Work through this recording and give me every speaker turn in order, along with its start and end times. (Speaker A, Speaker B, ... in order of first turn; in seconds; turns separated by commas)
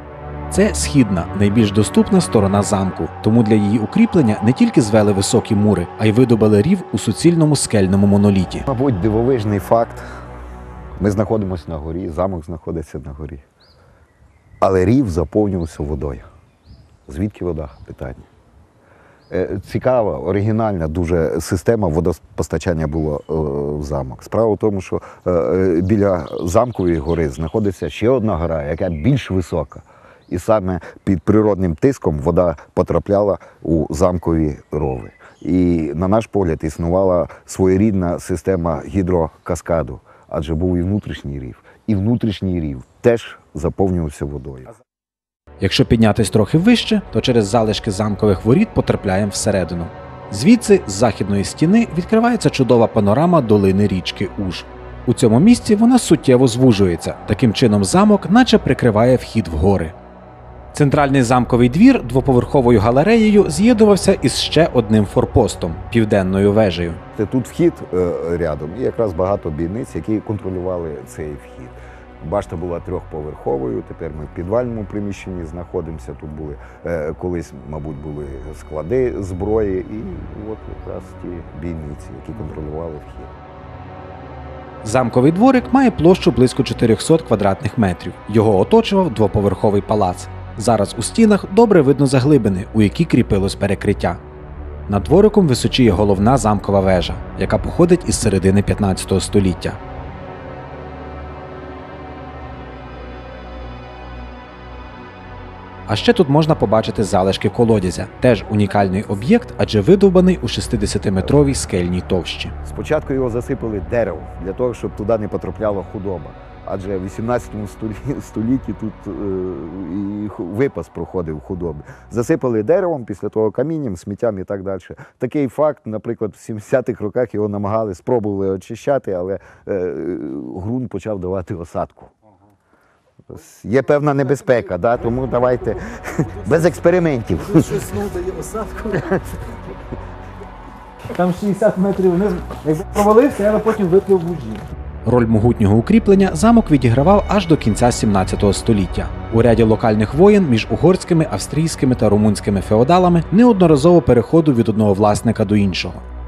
Speaker A: 0.5-8.7, Speaker B: 8.7-10.0, Speaker B: 11.0-13.4, Speaker B: 14.6-16.2, Speaker B: 17.1-18.3, Speaker B: 19.3-44.7, Speaker A: 45.6-59.9, Speaker A: 60.7-67.0, Speaker B: 67.2-83.3, Speaker A: 84.8-94.2, Speaker A: 94.9-99.8, Speaker A: 105.9-112.5, Speaker B: 112.6-132.1, Speaker B: 133.3-137.9, Speaker C: 137.8-139.0, Speaker A: 141.1-156.0, Speaker C: 141.2-144.6